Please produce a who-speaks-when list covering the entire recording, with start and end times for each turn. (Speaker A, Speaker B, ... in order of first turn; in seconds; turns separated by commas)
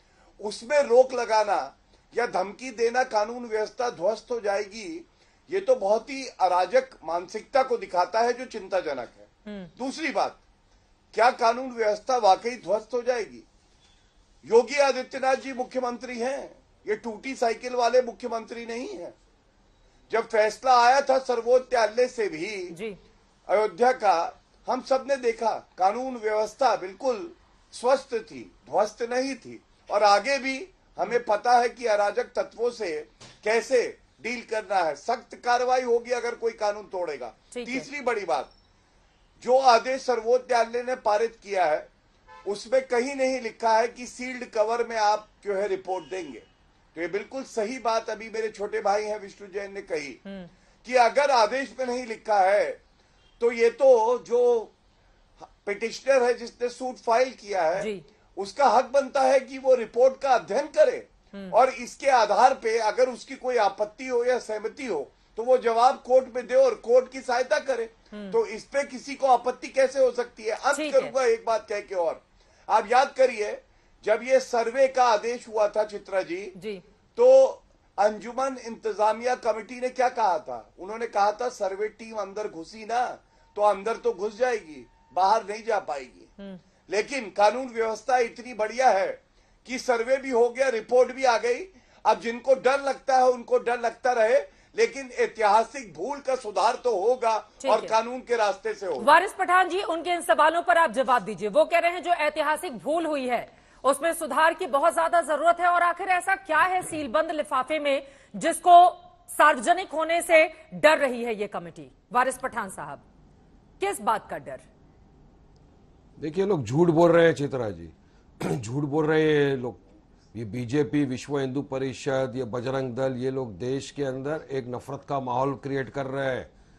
Speaker A: 0.4-10.4, Speaker B: 9.4-9.7, Speaker A: 11.1-13.4, Speaker A: 14.4-19.1, Speaker A: 20.1-22.7, Speaker B: 22.7-23.0, Speaker A: 23.5-38.5, Speaker B: 37.5-37.9, Speaker A: 39.4-41.9, Speaker A: 42.5-50.2, Speaker A: 50.8-52.8, Speaker A: 53.4-54.7, Speaker A: 55.6-76.5, Speaker B: 57.8-58.0, Speaker B: 68.1-68.4, Speaker B: 70.7-71.1, Speaker B: 76.5-76.8, Speaker A: 77.2-86.3, Speaker A: 86.9-99.1, Speaker B: 97.6-97.9, Speaker B: 99.0-113.0, Speaker B: 113.8-114.6, Speaker C: 116.2-126.5